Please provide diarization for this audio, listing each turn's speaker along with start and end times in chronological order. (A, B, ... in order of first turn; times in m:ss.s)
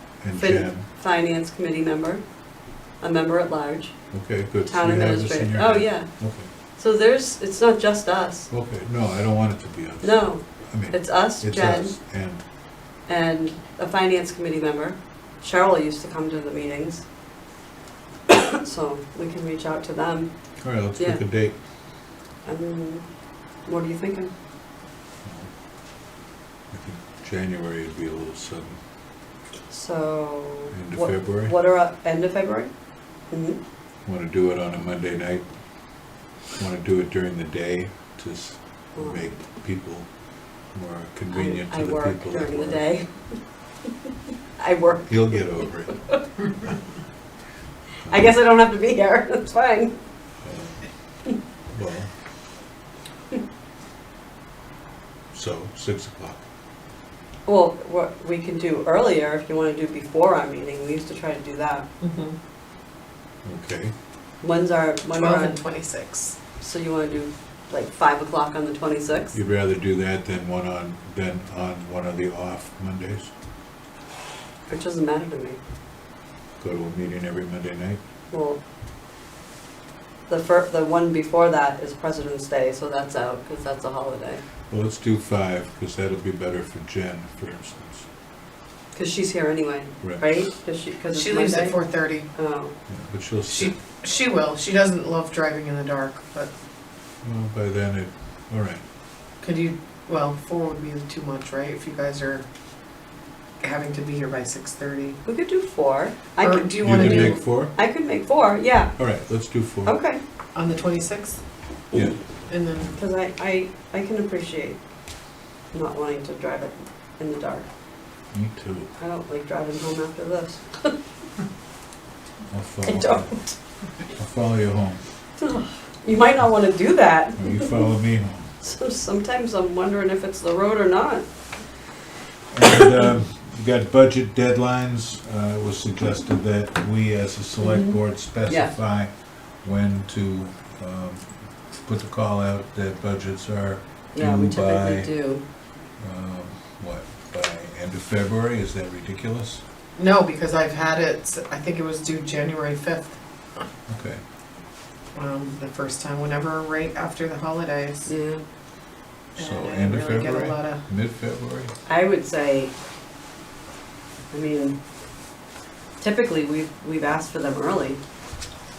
0:00.2-0:00.8 A
0:00.4-0:02.2 B
0:03.0-0:03.9 B
0:04.1-0:06.5 A
0:04.7-0:06.1 B
0:06.8-0:08.5 B
0:08.5-0:12.4 A
0:10.0-0:12.0 B
0:13.1-0:17.0 B
0:18.3-0:20.3 B
0:20.6-0:21.6 A
0:21.0-0:21.2 B
0:22.5-0:23.0 B
0:23.7-0:24.3 B
0:25.2-0:25.5 A
0:26.7-0:28.8 A
0:29.7-0:32.7 B
0:30.7-0:31.5 A
0:33.3-0:33.6 B
0:34.0-0:35.5 A
0:36.6-0:40.1 A
0:39.0-0:39.2 B
0:40.7-0:42.9 A
0:41.3-0:43.4 B
0:44.6-0:46.2 B
0:45.0-0:46.0 A
0:48.0-0:48.3 A
0:48.1-0:50.0 B
0:50.4-0:50.9 A
0:51.7-0:52.1 A
0:55.3-0:56.4 A
0:57.5-1:01.9 B
1:02.0-1:02.4 C
1:03.4-1:03.9 A
1:04.4-1:05.6 B
1:05.1-1:06.4 C
1:06.6-1:09.4 B
1:09.3-1:13.3 A
1:14.7-1:15.6 B
1:16.6-1:18.0 A
1:18.3-1:18.6 B
1:20.3-1:24.4 B
1:24.7-1:28.1 A
1:28.9-1:31.8 B
1:31.1-1:32.2 C
1:32.3-1:32.7 B
1:32.9-1:33.7 A
1:33.5-1:36.5 C
1:37.2-1:38.8 A
1:39.4-1:42.4 C
1:43.6-1:45.2 C
1:45.2-1:49.0 B
1:46.4-1:47.4 C
1:46.8-1:47.7 A
1:49.0-1:50.0 A
1:49.8-1:50.2 B
1:50.6-1:51.4 C
1:52.5-1:52.9 C
1:53.0-1:54.8 B
1:55.7-1:57.7 B
1:58.3-1:58.9 A
1:59.0-2:00.9 B
2:02.5-2:03.3 A
2:02.8-2:03.6 B
2:04.1-2:05.0 A
2:05.4-2:07.9 B
2:07.4-2:08.5 A
2:08.6-2:11.2 B
2:12.5-2:19.1 A
2:17.6-2:18.7 B
2:19.6-2:25.1 A
2:24.2-2:25.4 B
2:26.0-2:29.6 A
2:30.0-2:33.6 C
2:33.9-2:34.2 A
2:35.1-2:38.1 C
2:38.1-2:38.4 B
2:39.3-2:41.7 A
2:39.4-2:40.8 C
2:41.9-2:42.7 B
2:44.3-2:44.8 B
2:46.0-2:48.0 B